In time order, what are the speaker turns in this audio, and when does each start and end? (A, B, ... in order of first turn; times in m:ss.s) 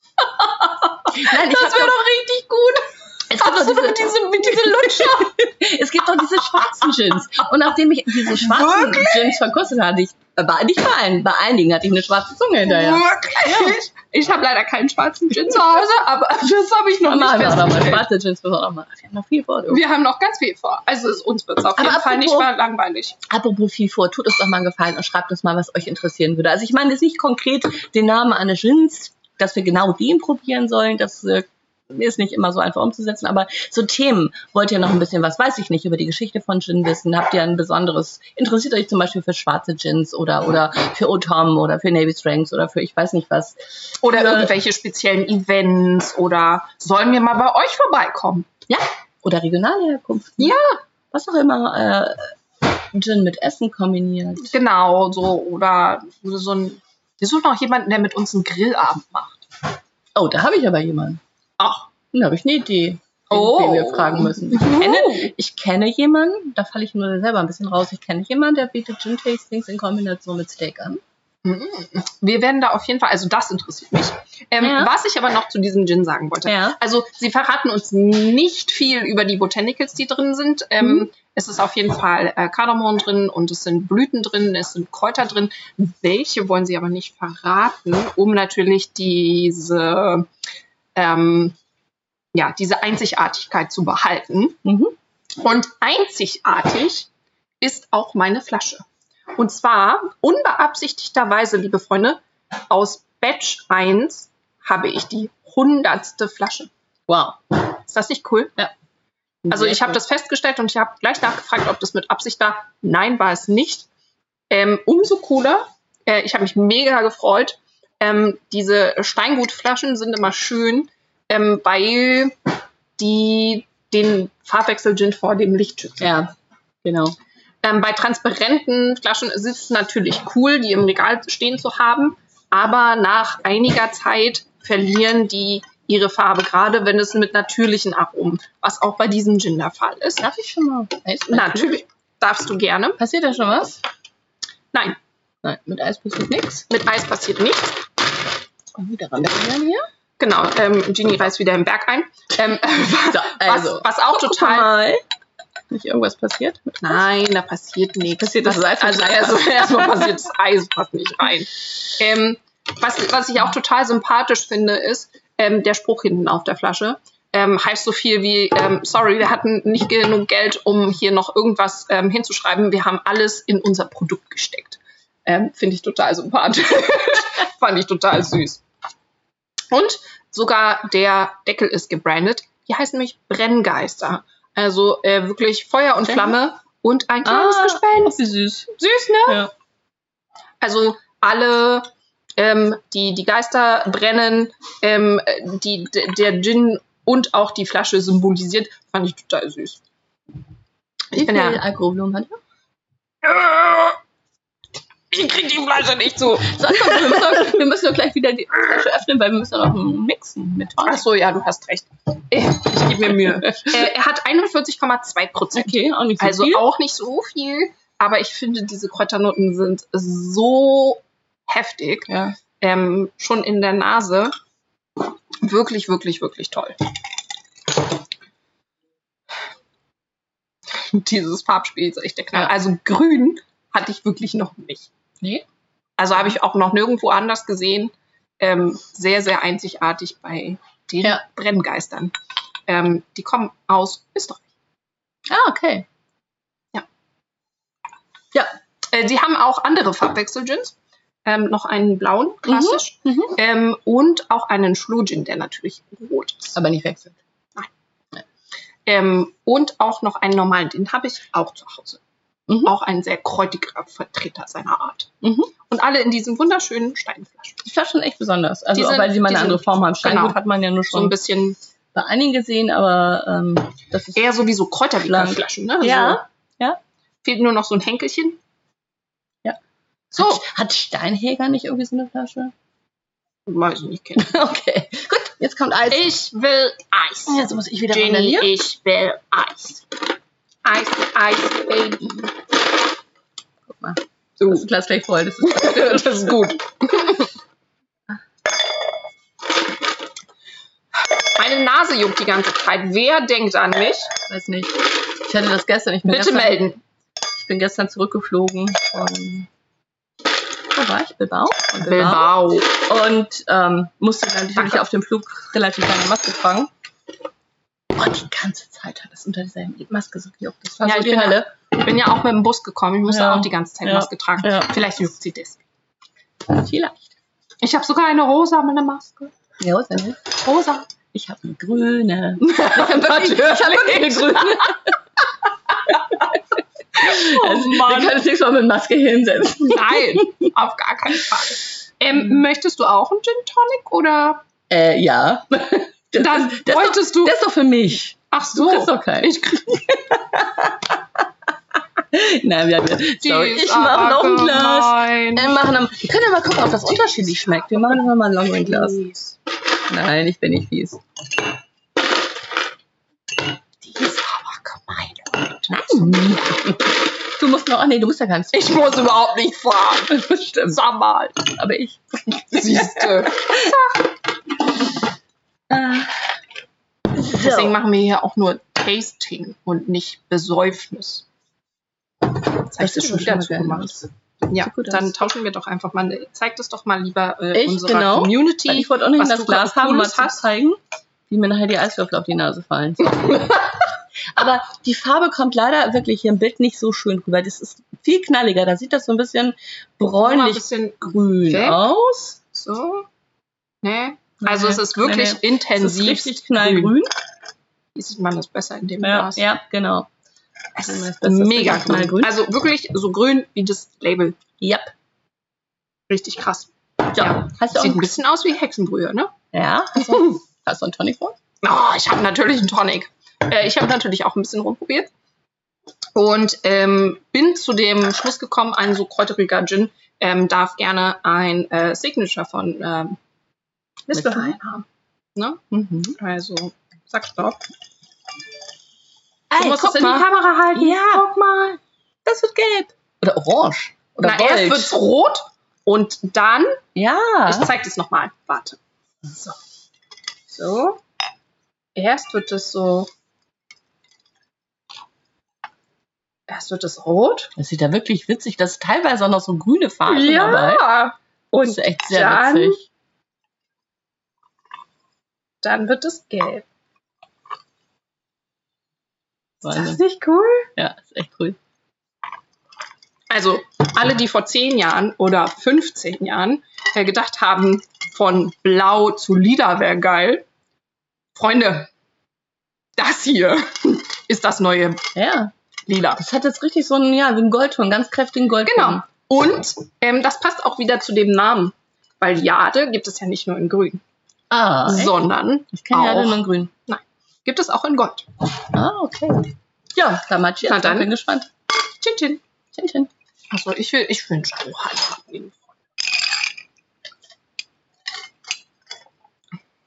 0:00.4-0:05.3 A
0:01.1-0:02.0 B
0:03.3-0:04.0 B
0:04.6-0:13.8 B
0:08.2-0:09.4 A
0:12.6-0:18.0 A
0:17.0-0:19.8 B
0:19.7-0:23.2 A
0:21.8-0:22.5 B
0:23.3-0:44.5 B
0:44.0-0:48.5 A
0:48.7-0:50.6 B
0:50.4-0:50.8 A
0:51.1-0:52.3 B
0:52.9-0:54.5 B
0:54.5-0:59.4 A
1:00.1-1:01.2 B
1:01.6-1:01.9 A
1:02.1-1:11.0 B
1:03.3-1:05.3 A
1:11.4-1:30.3 A
1:14.6-1:14.9 B
1:16.4-1:16.8 B
1:30.9-1:31.6 A
1:32.3-1:34.6 A
1:34.6-1:34.9 B
1:35.4-1:37.1 A
1:37.6-1:38.8 A
1:39.4-1:46.7 A
1:47.1-1:47.4 B
1:47.8-1:48.6 A
1:49.4-1:50.0 B
1:49.5-1:53.9 A
1:54.5-2:02.4 A
2:03.0-2:06.2 A
2:06.0-2:06.3 B
2:06.8-2:07.2 B
2:07.6-2:20.2 A
2:20.2-2:21.7 B
2:21.3-2:23.0 A
2:23.0-2:23.8 B
2:25.4-2:26.7 B
2:26.7-2:27.8 A
2:28.7-2:29.9 B
2:30.2-2:34.7 A
2:33.1-2:35.0 B
2:35.7-2:37.0 B
2:36.8-2:58.6 A
2:38.2-2:40.1 B
2:59.7-3:08.2 A
3:06.0-3:06.3 B
3:07.2-3:09.5 B
3:08.8-3:09.4 A
3:10.6-3:19.8 A
3:21.1-3:21.6 A
3:21.1-3:22.4 B
3:23.2-3:24.0 A
3:25.1-3:27.6 A
3:26.4-3:31.0 B
3:30.8-3:44.3 A
3:33.4-3:33.8 B
3:35.5-3:36.6 B
3:42.1-3:42.4 B
3:45.4-3:46.8 A
3:50.7-3:54.9 A
3:56.0-4:02.1 A
4:02.7-4:04.4 A
4:05.3-4:05.8 B
4:08.9-4:16.6 A
4:12.4-4:13.3 B
4:16.5-4:17.2 B
4:18.8-4:22.0 A
4:22.5-4:22.7 B
4:22.6-4:25.1 A
4:25.2-4:25.5 B
4:25.7-4:27.6 A
4:27.6-4:31.2 B
4:28.7-4:31.6 A
4:31.9-4:34.3 B
4:34.1-4:36.2 A
4:35.0-4:36.8 B
4:37.2-4:38.4 A
4:40.1-4:40.4 A
4:40.1-4:42.5 B
4:43.4-4:44.3 A
4:44.2-4:46.1 B
4:45.9-4:49.8 A
4:47.3-4:48.5 B
4:50.6-4:52.3 A
4:53.7-4:56.3 B
4:54.4-4:54.6 A
4:55.4-4:57.3 A
5:01.4-5:04.1 A
5:04.2-5:06.6 B
5:06.0-5:06.8 A
5:07.3-5:09.5 B
5:10.7-5:16.7 B
5:11.8-5:12.7 A
5:14.6-5:14.8 A
5:17.9-5:21.5 B
5:20.8-5:25.6 A
5:23.1-5:24.8 B
5:26.5-5:27.1 B
5:27.6-5:29.3 A
5:29.6-5:30.3 B
5:30.4-5:30.9 A
5:31.1-5:35.0 B
5:32.4-5:34.8 A
5:35.7-5:36.4 B
5:36.9-5:40.5 B
5:37.0-5:38.2 A
5:39.7-5:44.4 A
5:44.7-5:51.2 B
5:46.2-5:47.4 A
5:48.3-5:49.8 A
5:52.0-5:59.0 B
5:53.2-5:55.5 A
5:58.6-5:59.4 A
5:59.9-6:01.0 B
6:03.8-6:06.4 A
6:05.7-6:08.9 B
6:08.5-6:11.4 A
6:10.1-6:10.8 B
6:11.4-6:13.7 B
6:12.5-6:14.0 A
6:15.7-6:16.2 B
6:17.2-6:17.7 B
6:17.2-6:21.2 A
6:22.6-6:30.4 A
6:22.8-6:24.1 B
6:24.6-6:25.2 B
6:27.5-6:33.6 B
6:34.3-6:42.4 B
6:40.2-6:41.8 A
6:42.5-6:43.1 A
6:43.8-6:46.9 A
6:44.4-6:47.1 B
6:47.9-6:49.4 A
6:49.0-6:50.1 B
6:50.8-6:54.4 A
6:50.8-6:52.3 B
6:54.6-6:54.9 B
6:56.1-6:59.3 A
6:57.1-6:58.1 B
6:59.5-7:01.3 B
7:00.0-7:00.2 A
7:01.6-7:05.1 A
7:06.1-7:13.2 A
7:14.1-7:15.6 A
7:14.1-7:14.6 B
7:15.7-7:16.2 B
7:16.2-7:17.6 A
7:19.5-7:25.0 B
7:19.6-7:21.4 A
7:24.2-7:26.8 A
7:26.9-7:27.7 B
7:27.5-7:29.6 A
7:30.5-7:31.0 A
7:32.0-7:33.1 A
7:36.5-7:37.5 A
7:37.6-7:40.8 B
7:40.1-7:42.8 A
7:41.6-7:42.8 B
7:45.6-7:46.6 A
7:49.6-7:50.0 B
7:49.6-7:50.7 A
7:50.8-7:51.6 B
7:53.3-8:00.4 A
8:01.3-8:01.9 A
8:03.0-8:05.1 A
8:05.1-8:05.5 B
8:05.9-8:06.2 A
8:06.2-8:09.0 B
8:08.6-8:14.0 A
8:14.5-8:15.2 B
8:14.9-8:18.3 A
8:15.7-8:16.7 B
8:18.7-8:21.5 B
8:20.6-8:21.1 A
8:21.9-8:22.4 A
8:22.7-8:23.1 B
8:23.5-8:25.8 A